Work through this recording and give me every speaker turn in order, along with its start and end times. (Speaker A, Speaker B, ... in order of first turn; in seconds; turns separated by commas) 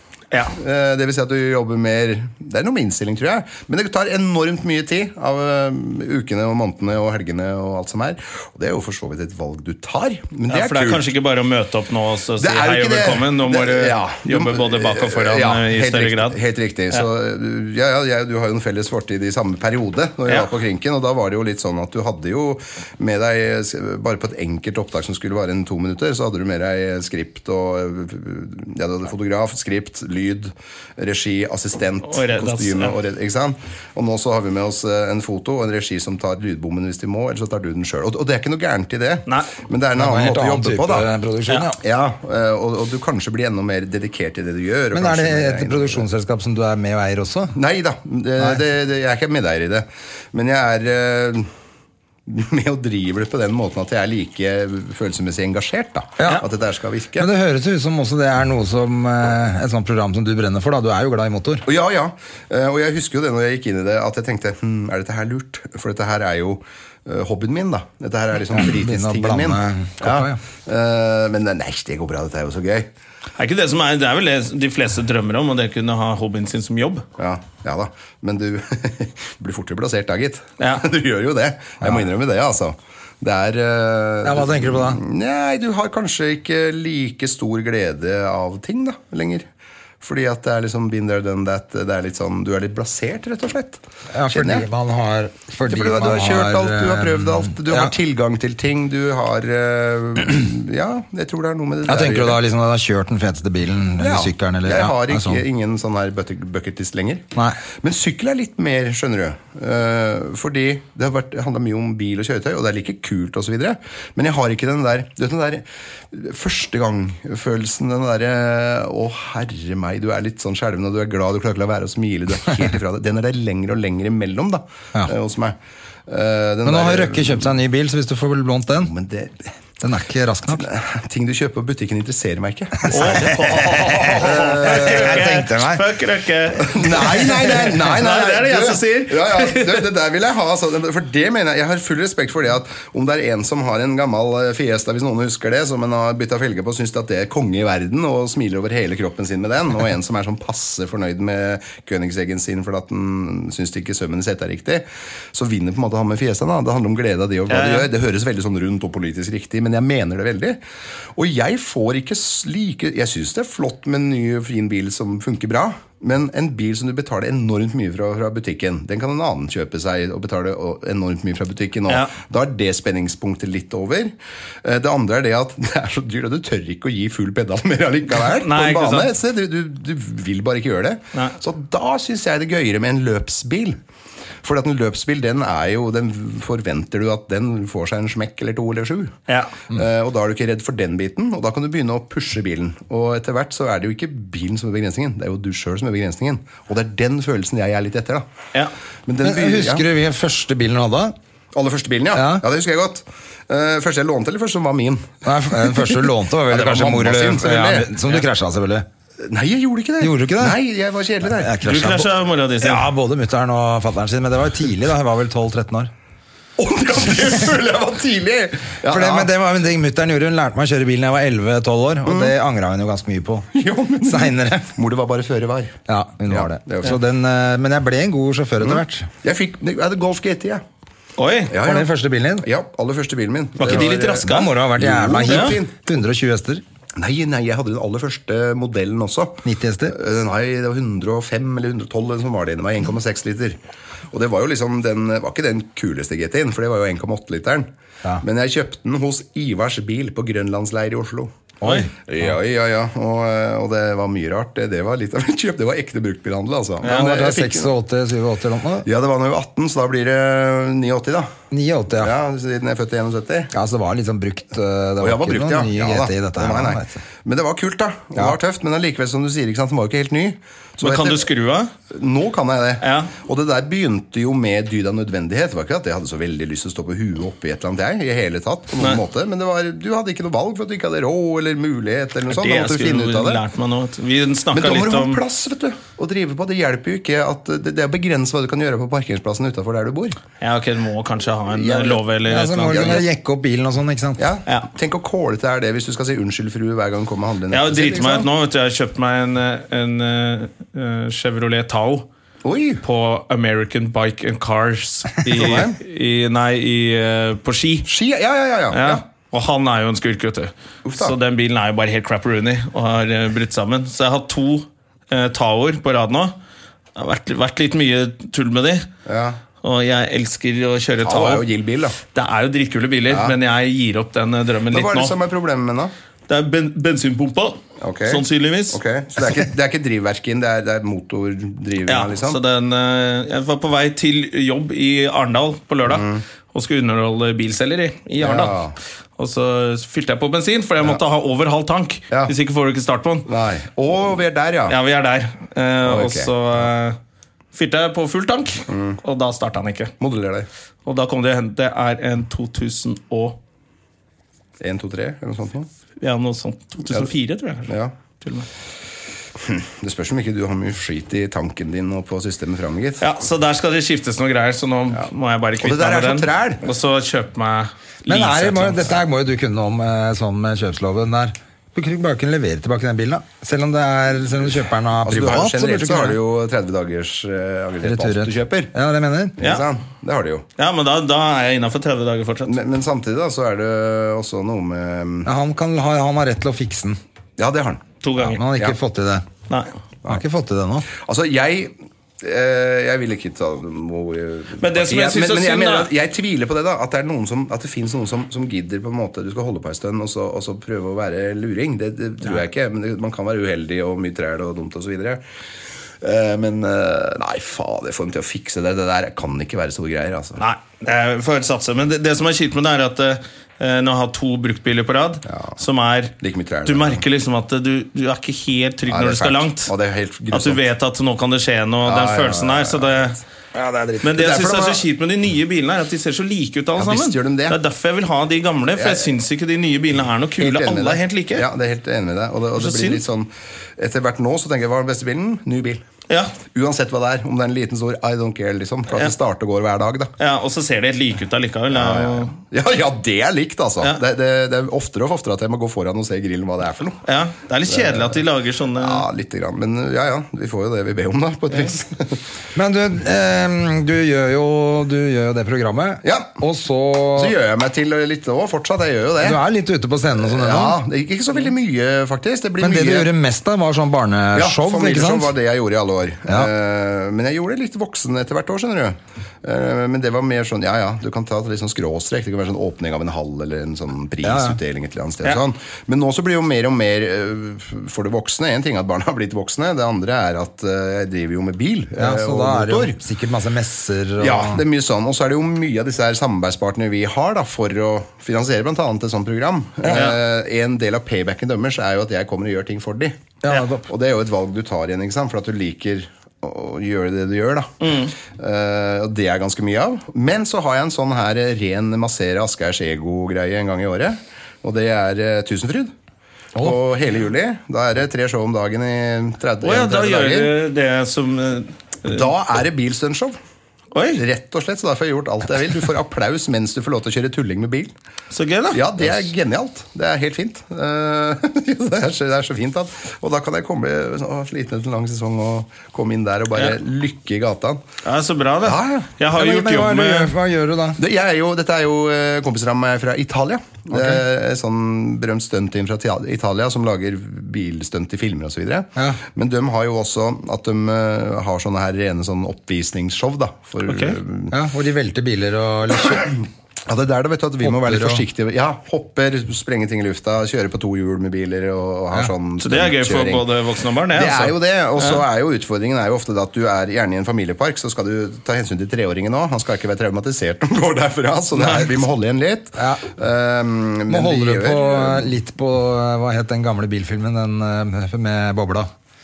Speaker A: 0.5-11.1, Speaker B: 10.5-16.4, Speaker A: 12.4-41.1, Speaker B: 32.0-33.0, Speaker C: 40.0-41.8, Speaker A: 41.8-46.0, Speaker C: 44.9-47.5, Speaker A: 47.5-51.5, Speaker A: 52.3-57.3, Speaker C: 56.2-56.4, Speaker C: 57.2-61.6, Speaker A: 61.6-72.9, Speaker C: 68.5-70.4, Speaker B: 73.4-77.0, Speaker A: 77.2-89.4, Speaker B: 80.6-80.8, Speaker C: 84.2-85.0, Speaker A: 90.0-94.7, Speaker C: 94.1-97.9, Speaker A: 95.7-102.4, Speaker C: 101.8-105.4, Speaker A: 104.0-107.2, Speaker C: 107.3-107.6, Speaker A: 107.8-125.5, Speaker A: 126.1-127.6, Speaker C: 126.6-128.9, Speaker A: 128.8-129.4, Speaker C: 129.8-130.7, Speaker A: 130.5-135.3, Speaker C: 132.9-135.8, Speaker B: 132.9-139.8, Speaker A: 136.6-160.6, Speaker B: 157.5-157.9, Speaker A: 161.2-183.8, Speaker B: 178.3-179.1, Speaker A: 184.4-189.2, Speaker A: 189.7-198.2, Speaker A: 199.1-199.9, Speaker C: 199.2-201.2, Speaker A: 201.5-207.9, Speaker C: 202.1-202.4, Speaker C: 205.2-208.8, Speaker A: 209.2-211.5, Speaker C: 210.0-210.6, Speaker C: 211.2-215.9, Speaker B: 211.6-212.8, Speaker A: 216.6-219.3, Speaker C: 218.8-223.5, Speaker A: 222.1-222.3, Speaker A: 223.5-227.0, Speaker C: 224.0-224.7, Speaker C: 225.9-229.1, Speaker A: 228.6-230.6, Speaker B: 231.2-231.5, Speaker A: 231.5-235.7, Speaker C: 231.6-232.5, Speaker B: 233.6-234.5, Speaker C: 233.6-236.6, Speaker B: 235.3-235.6, Speaker A: 237.0-243.6, Speaker C: 239.4-240.0, Speaker A: 244.1-247.7, Speaker A: 248.2-251.4, Speaker C: 251.6-252.3, Speaker B: 251.6-251.9, Speaker A: 252.1-257.7, Speaker C: 256.9-258.9, Speaker A: 258.8-261.3, Speaker C: 261.5-262.1, Speaker A: 261.9-263.5, Speaker C: 263.5-267.0, Speaker A: 265.0-271.3, Speaker B: 270.8-271.7, Speaker A: 271.9-283.4, Speaker B: 272.8-273.1, Speaker B: 282.3-285.2, Speaker A: 284.5-290.2, Speaker B: 290.4-293.0, Speaker A: 291.5-292.0, Speaker C: 292.3-294.2, Speaker A: 292.6-293.0, Speaker A: 294.2-298.3, Speaker B: 297.5-302.1, Speaker A: 302.4-302.8, Speaker B: 302.8-307.9, Speaker A: 305.3-305.8, Speaker A: 307.9-309.0, Speaker B: 308.7-316.4, Speaker A: 310.8-311.1, Speaker B: 316.9-318.9, Speaker A: 319.1-319.4, Speaker B: 319.6-321.4, Speaker A: 321.0-322.0, Speaker B: 322.1-325.1, Speaker A: 323.1-323.4, Speaker A: 324.7-325.9, Speaker B: 326.3-328.8, Speaker A: 327.8-332.4, Speaker B: 331.9-338.6, Speaker A: 335.8-336.2, Speaker A: 338.2-338.8, Speaker B: 339.2-343.3, Speaker A: 343.3-344.8, Speaker B: 344.7-347.0, Speaker A: 345.8-346.3, Speaker B: 347.5-349.9, Speaker A: 348.7-349.0, Speaker A: 350.0-350.5, Speaker B: 350.8-353.4, Speaker A: 354.6-355.7, Speaker B: 356.0-358.5, Speaker A: 357.7-357.9, Speaker A: 359.4-363.1, Speaker B: 363.0-369.0, Speaker A: 365.6-366.6, Speaker C: 368.1-376.2, Speaker A: 375.0-378.7, Speaker C: 377.8-379.4, Speaker A: 379.4-380.4, Speaker B: 380.6-382.6, Speaker A: 382.4-385.3, Speaker C: 385.2-387.0, Speaker A: 387.4-387.8, Speaker B: 388.0-388.4, Speaker C: 388.2-389.2, Speaker C: 390.0-390.9, Speaker A: 390.9-405.2, Speaker B: 394.6-395.9, Speaker A: 406.0-410.4, Speaker B: 410.4-416.1, Speaker A: 415.3-415.6, Speaker A: 416.2-417.0, Speaker B: 416.6-419.7, Speaker A: 418.9-420.6, Speaker B: 420.3-423.2, Speaker A: 421.9-423.2, Speaker C: 423.5-424.0, Speaker A: 423.8-424.8, Speaker B: 424.0-431.4, Speaker A: 426.8-427.6, Speaker A: 428.8-429.1, Speaker A: 430.4-435.8, Speaker B: 432.6-433.0, Speaker B: 436.1-436.3, Speaker A: 436.4-440.1, Speaker B: 440.2-442.3, Speaker A: 441.7-447.0, Speaker B: 447.1-449.0, Speaker A: 447.7-448.2, Speaker A: 448.7-452.2, Speaker C: 452.5-457.4, Speaker A: 456.0-456.4, Speaker A: 457.1-459.4, Speaker C: 459.2-460.8, Speaker A: 460.2-463.1, Speaker C: 462.6-465.3, Speaker A: 464.3-483.0, Speaker C: 474.2-474.6, Speaker C: 482.0-484.6, Speaker A: 484.2-493.2, Speaker B: 489.9-490.2, Speaker C: 493.4-493.9, Speaker A: 493.9-505.9, Speaker B: 497.8-498.1, Speaker A: 506.6-510.5, Speaker B: 509.6-512.2, Speaker A: 512.0-513.4, Speaker B: 513.9-514.2, Speaker A: 514.2-517.9, Speaker B: 518.3-518.8, Speaker A: 518.7-527.8, Speaker B: 528.0-530.3, Speaker A: 528.6-529.1, Speaker C: 529.3-531.0, Speaker A: 531.0-544.6, Speaker C: 533.9-534.2, Speaker B: 543.9-544.2, Speaker C: 544.5-546.3, Speaker A: 546.0-553.5, Speaker C: 547.6-548.2, Speaker B: 552.6-555.2, Speaker A: 554.1-565.3, Speaker B: 561.5-562.0, Speaker C: 562.8-563.1, Speaker C: 564.1-568.9